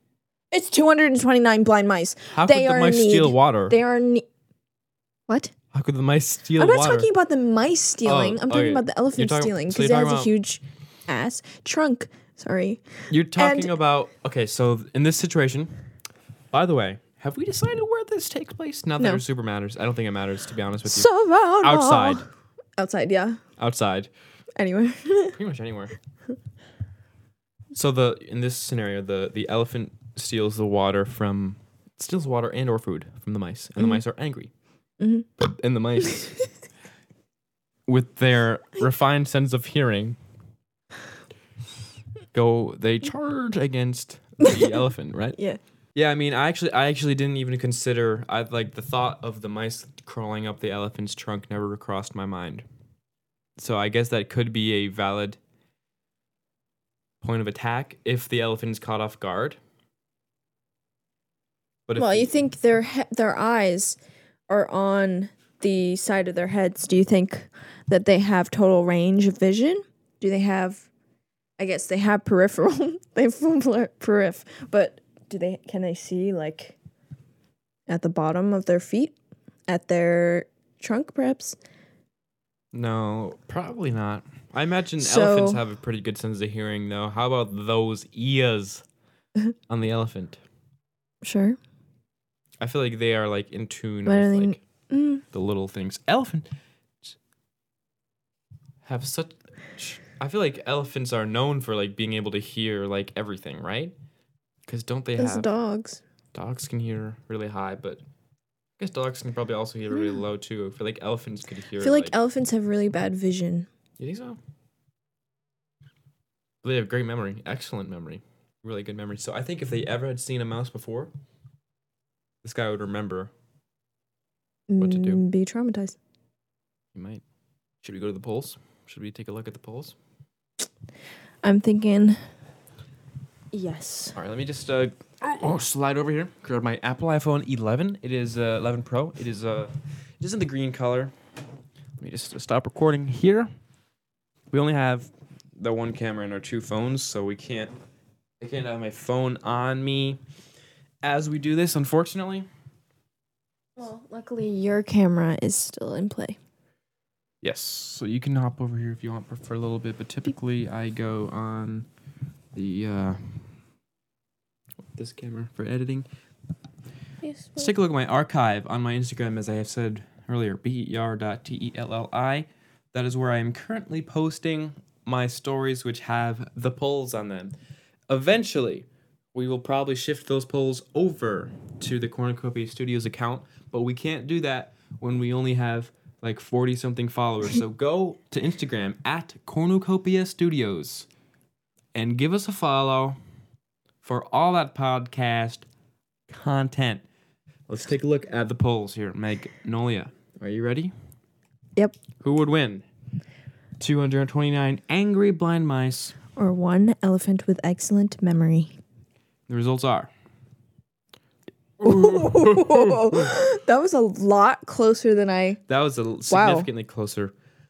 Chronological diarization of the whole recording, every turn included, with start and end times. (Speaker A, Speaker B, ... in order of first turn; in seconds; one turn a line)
Speaker A: 0.5-4.2
Speaker B: 2.3-3.8
Speaker A: 5.3-5.5
Speaker B: 5.7-7.1
Speaker A: 6.6-13.7
Speaker B: 8.0-10.3
Speaker B: 13.1-15.7
Speaker B: 16.5-21.1
Speaker A: 20.9-22.2
Speaker B: 21.6-22.2
Speaker A: 22.8-23.4
Speaker B: 23.6-24.1
Speaker A: 24.6-25.4
Speaker B: 25.3-25.9
Speaker B: 27.7-34.5
Speaker A: 35.0-35.3
Speaker B: 35.4-36.3
Speaker B: 37.9-40.2
Speaker B: 42.3-45.4
Speaker A: 44.4-44.8
Speaker B: 45.9-52.6
Speaker B: 53.6-55.4
Speaker B: 57.2-59.6
Speaker B: 61.9-62.3
Speaker A: 62.0-70.9
Speaker A: 71.6-76.8
Speaker A: 77.9-79.2
Speaker A: 79.7-81.6
Speaker B: 82.7-88.8
Speaker A: 85.0-85.6
Speaker B: 89.7-90.4
Speaker A: 91.2-91.6
Speaker B: 92.6-94.6
Speaker A: 94.0-95.2
Speaker B: 95.3-96.5
Speaker B: 98.8-103.9
Speaker B: 104.7-105.5
Speaker A: 105.2-106.0
Speaker B: 106.3-108.0
Speaker B: 108.8-112.1
Speaker A: 111.8-113.7
Speaker B: 114.0-114.4
Speaker B: 116.6-121.1
Speaker B: 122.4-123.3
Speaker A: 124.7-126.0
Speaker B: 124.8-125.2
Speaker B: 126.9-127.2
Speaker B: 127.8-129.9
Speaker A: 131.4-132.2
Speaker A: 133.5-134.2
Speaker B: 134.1-141.1
Speaker B: 142.0-143.5
Speaker B: 144.5-147.7
Speaker B: 148.4-150.2
Speaker B: 151.0-152.5
Speaker A: 153.8-156.4
Speaker B: 157.4-161.9
Speaker B: 162.5-163.4
Speaker B: 164.9-166.1
Speaker A: 167.2-167.7
Speaker B: 167.6-177.5
Speaker B: 178.1-191.1
Speaker B: 191.9-193.2
Speaker B: 194.0-195.7
Speaker B: 196.3-197.0
Speaker B: 197.7-200.9
Speaker B: 202.2-202.8
Speaker B: 203.8-206.2
Speaker A: 206.3-208.7
Speaker B: 209.5-210.1
Speaker B: 211.8-213.3
Speaker A: 211.8-215.6
Speaker B: 215.7-217.3
Speaker A: 216.3-216.7